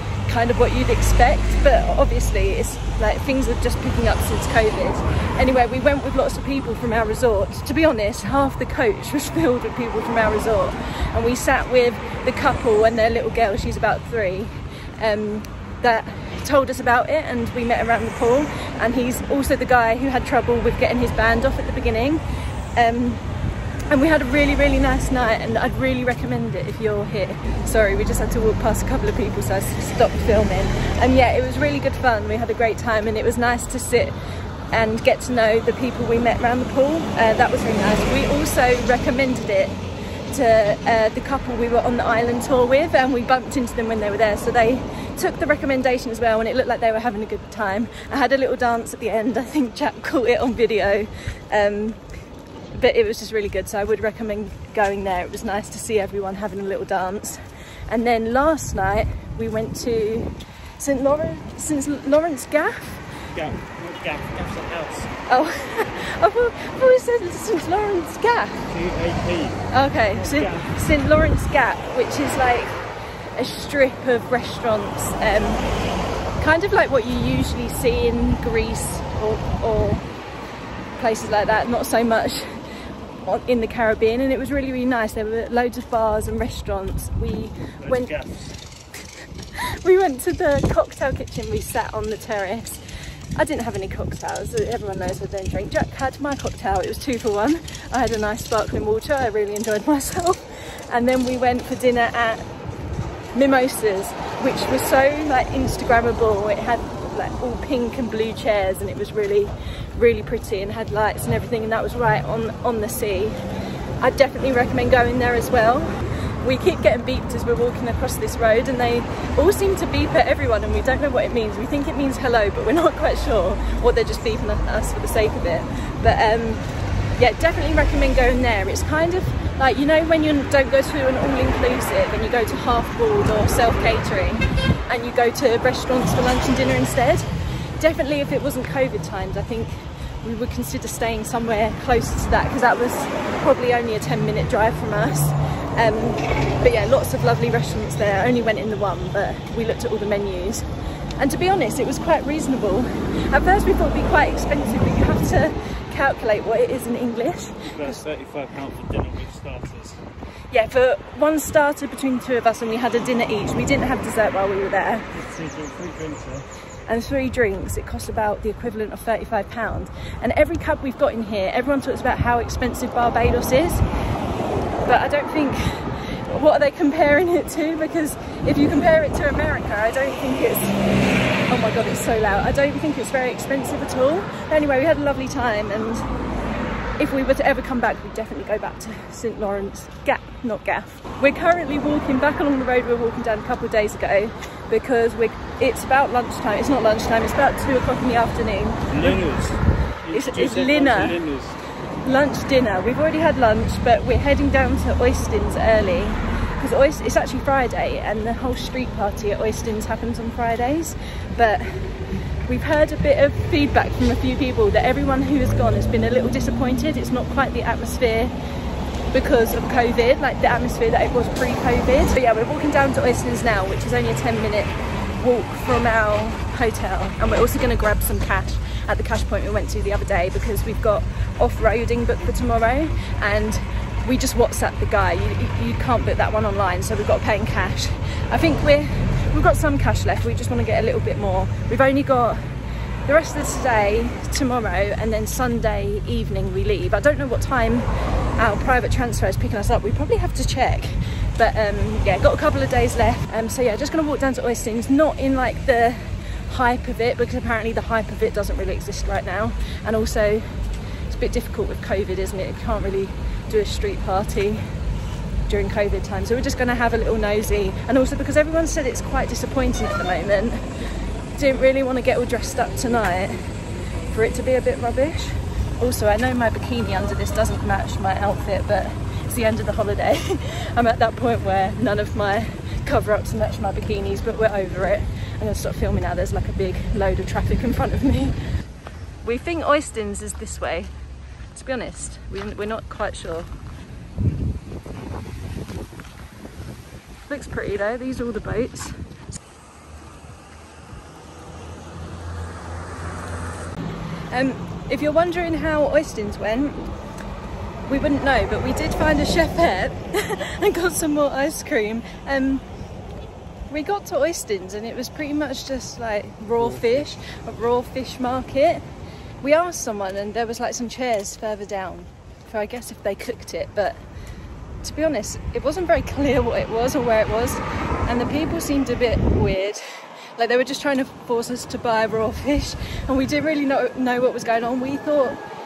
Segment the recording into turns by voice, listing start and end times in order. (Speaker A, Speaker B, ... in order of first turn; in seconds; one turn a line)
Speaker A: 0.3-22.2
Speaker A: 22.8-23.2
Speaker A: 23.9-34.2
Speaker A: 34.7-39.8
Speaker A: 40.3-52.0
Speaker A: 52.7-63.1
Speaker B: 63.3-65.1
Speaker A: 65.3-68.7
Speaker B: 68.7-70.7
Speaker A: 69.7-72.8
Speaker A: 73.4-75.6
Speaker A: 76.4-80.1
Speaker A: 81.0-82.6
Speaker A: 83.2-88.2
Speaker B: 87.8-88.5
Speaker A: 89.6-92.8
Speaker A: 93.4-102.5
Speaker A: 103.3-113.4
Speaker A: 114.0-126.6
Speaker A: 127.2-137.3
Speaker A: 137.8-150.7
Speaker A: 151.2-158.0
Speaker B: 157.7-160.0
Speaker A: 160.5-165.1
Speaker B: 165.1-166.4
Speaker A: 166.9-173.8
Speaker A: 174.9-180.8
Speaker A: 181.5-186.1
Speaker A: 187.0-199.2
Speaker B: 198.9-201.6
Speaker A: 200.1-201.2
Speaker A: 202.0-211.9
Speaker A: 212.5-218.3
Speaker A: 219.1-242.4
Speaker A: 243.1-264.6
Speaker A: 265.5-270.6
Speaker A: 271.4-273.5
Speaker A: 274.1-288.4
Speaker A: 289.2-290.9
Speaker A: 291.5-293.5
Speaker A: 297.3-299.0
Speaker A: 304.3-306.9
Speaker A: 307.9-312.6
Speaker A: 313.7-318.8
Speaker A: 319.4-324.0
Speaker A: 324.8-329.8
Speaker A: 330.4-335.4